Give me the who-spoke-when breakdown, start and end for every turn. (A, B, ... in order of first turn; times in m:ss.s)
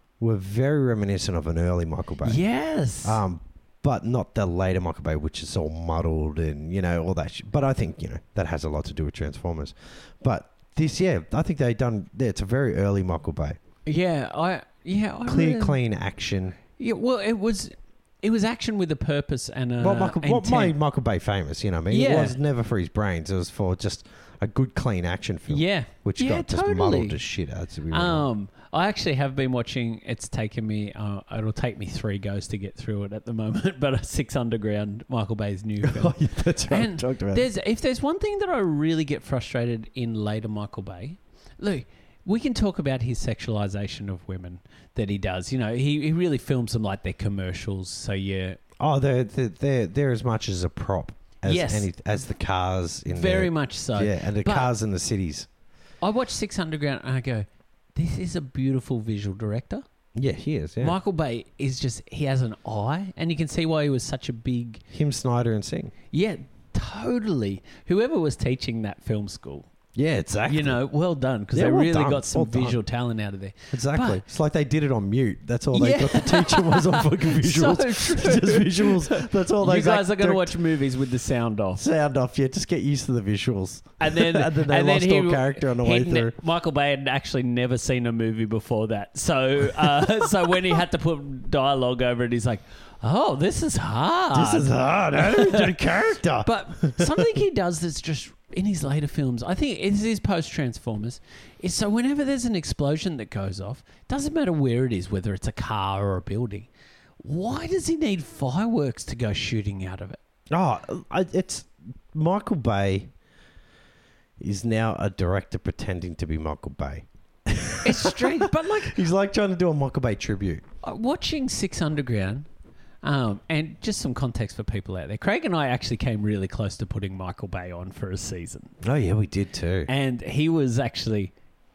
0:00.2-0:02.4 A
0:02.2-0:03.2 B
0:03.0-0:13.6 A
0:13.8-0:15.8 B
0:15.3-0:16.6 A
0:16.8-0:20.7 B
0:19.8-0:28.3 A
0:21.9-0:22.4 B
0:25.5-0:27.2 B
0:27.9-0:48.6 B
0:35.8-0:37.4 A
0:48.8-0:55.5 A
0:51.5-0:51.9 B
0:53.1-0:54.7 B
0:56.0-0:59.8 B
1:00.1-1:01.0 A
1:00.8-1:04.8 B
1:04.9-1:05.9 A
1:06.1-1:09.7 B
1:09.9-1:10.8 A
1:10.4-1:14.2 B
1:11.5-1:12.8 A
1:13.7-1:20.6 A
1:15.7-1:21.8 B
1:21.8-1:26.3 A
1:24.0-1:46.7 B
1:29.8-1:30.5 A
1:34.3-1:37.3 A
1:47.2-1:50.2 B
1:50.5-1:53.1 A
1:54.4-2:00.6 A
1:57.8-1:59.0 B
2:00.8-2:02.5 B
2:03.0-2:08.7 B
2:08.8-2:09.9 A
2:09.9-2:11.3 B